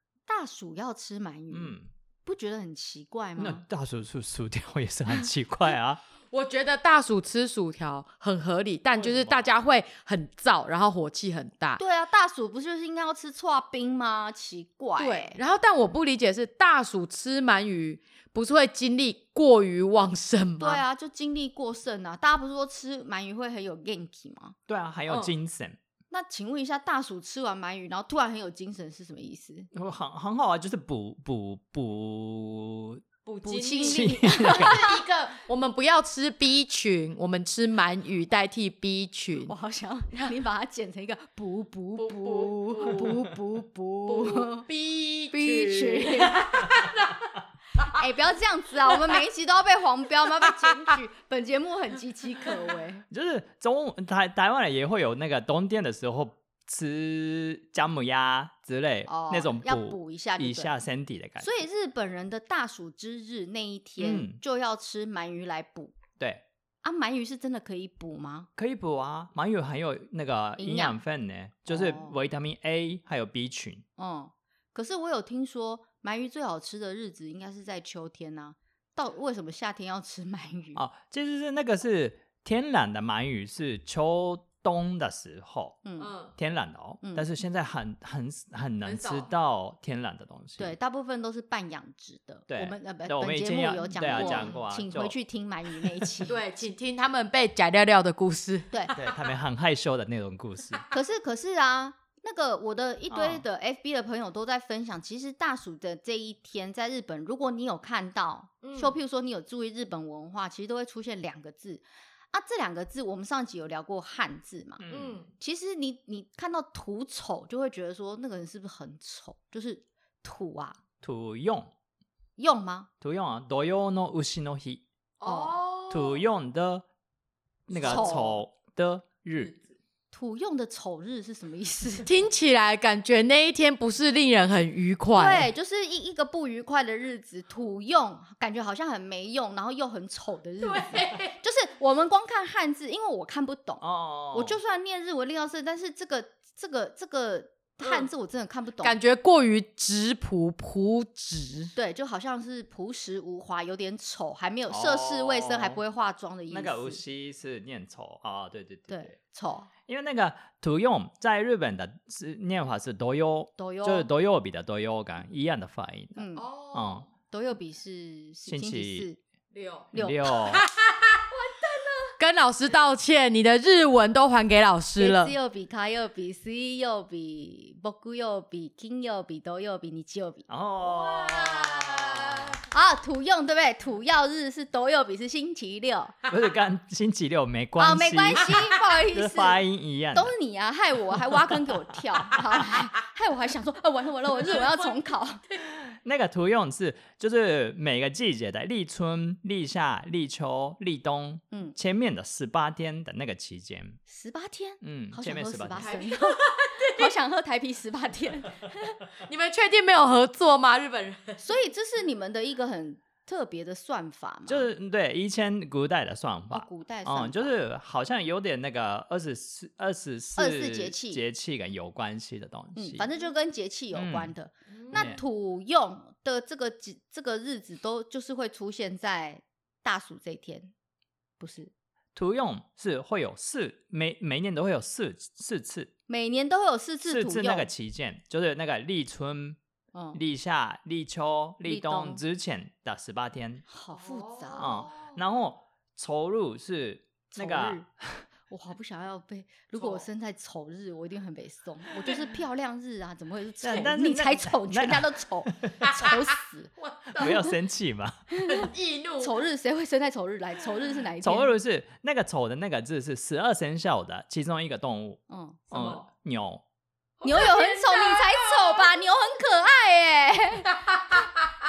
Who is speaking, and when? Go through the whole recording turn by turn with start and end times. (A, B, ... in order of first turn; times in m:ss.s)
0:00.3-0:03.6 A
0:01.5-0:01.9 B
0:03.4-0:06.0 B
0:06.3-0:11.8 C
0:09.0-0:09.5 B
0:11.8-0:15.4 A
0:15.0-0:20.8 C
0:20.6-0:24.6 A
0:24.7-0:25.8 B
0:25.1-0:25.3 C
0:26.1-0:29.7 A
0:29.7-0:33.0 B
0:33.3-0:39.5 C
0:33.4-0:35.0 A
0:33.8-0:34.8 B
0:39.5-0:44.7 A
0:42.0-0:43.2 C
0:44.1-0:47.2 C
0:45.3-0:46.7 A
0:47.8-0:53.0 A
0:53.1-1:01.5 B
0:59.1-1:00.7 A
1:01.4-1:06.0 A
1:04.0-1:04.4 B
1:06.2-1:06.4 B
1:06.8-1:08.5 A
1:08.6-1:13.8 B
1:10.6-1:11.0 A
1:11.7-1:12.2 A
1:14.0-1:20.8 A
1:20.8-1:25.8 B
1:25.8-1:26.1 A
1:26.0-1:26.3 C
1:26.4-1:30.8 B
1:27.0-1:27.3 A
1:28.8-1:29.3 C
1:30.6-1:36.4 A
1:32.5-1:35.2 B
1:34.1-1:34.6 C
1:36.3-1:38.9 C
1:39.0-1:40.8 B
1:40.9-1:54.8 A
1:43.1-1:43.4 B
1:48.6-1:49.0 C
1:54.8-1:55.2 B
1:54.9-1:55.3 C
1:55.4-2:00.8 A
2:01.0-2:01.7 B
2:02.4-2:02.9 A
2:03.0-2:04.8 B
2:05.2-2:06.2 C
2:05.2-2:05.6 A
2:05.9-2:06.8 B
2:07.7-2:09.6 B
2:07.7-2:08.2 C
2:07.8-2:08.4 A
2:10.1-2:12.1 A
2:12.0-2:15.5 C
2:15.1-2:29.0 A
2:20.6-2:21.4 C
2:23.8-2:24.6 B
2:27.8-2:28.1 C
2:28.8-2:31.7 C
2:31.8-2:37.0 A
2:34.7-2:35.8 B
2:36.5-2:39.2 B
2:38.9-2:39.7 A
2:39.9-2:46.2 B
2:43.6-2:44.1 A
2:46.2-2:46.5 A
2:46.4-2:47.0 C
2:46.7-2:47.1 B
2:47.2-2:49.2 A
2:48.5-2:49.1 B
2:49.5-2:49.9 C
2:49.9-2:50.4 A
2:49.9-2:50.6 B
2:50.4-2:51.2 C
2:51.3-2:52.2 A
2:52.2-2:55.3 C
2:55.0-3:00.5 A
3:00.5-3:02.6 B
3:00.8-3:02.4 C
3:02.7-3:06.2 A
3:06.3-3:10.3 B
3:07.8-3:15.4 A
3:14.5-3:15.0 C
3:15.7-3:24.0 B
3:24.1-3:29.0 A
3:24.8-3:26.0 B
3:25.8-3:27.1 C
3:29.2-3:31.4 C
3:31.4-3:34.7 A
3:34.5-3:43.1 B
3:36.5-3:37.6 A
3:40.4-3:41.2 A
3:42.8-3:50.7 A
3:43.9-3:44.3 B
3:44.8-3:45.0 C
3:44.9-3:45.2 B
3:51.4-3:51.7 A
3:52.2-3:55.9 B
3:56.1-3:57.7 A
3:57.0-3:59.6 B
3:59.9-4:00.2 A
4:00.1-4:03.6 B
4:01.7-4:02.2 A
4:03.7-4:04.9 A
4:03.9-4:05.2 C
4:04.6-4:08.3 B
4:07.3-4:07.9 A
4:08.5-4:17.5 A
4:09.8-4:10.0 C
4:13.6-4:15.9 B
4:15.8-4:17.4 C
4:17.1-4:18.3 B
4:18.3-4:21.5 A
4:18.5-4:19.4 C
4:21.2-4:26.6 B
4:25.3-4:26.0 A
4:25.7-4:26.0 C
4:27.2-4:29.0 C
4:27.2-4:31.2 A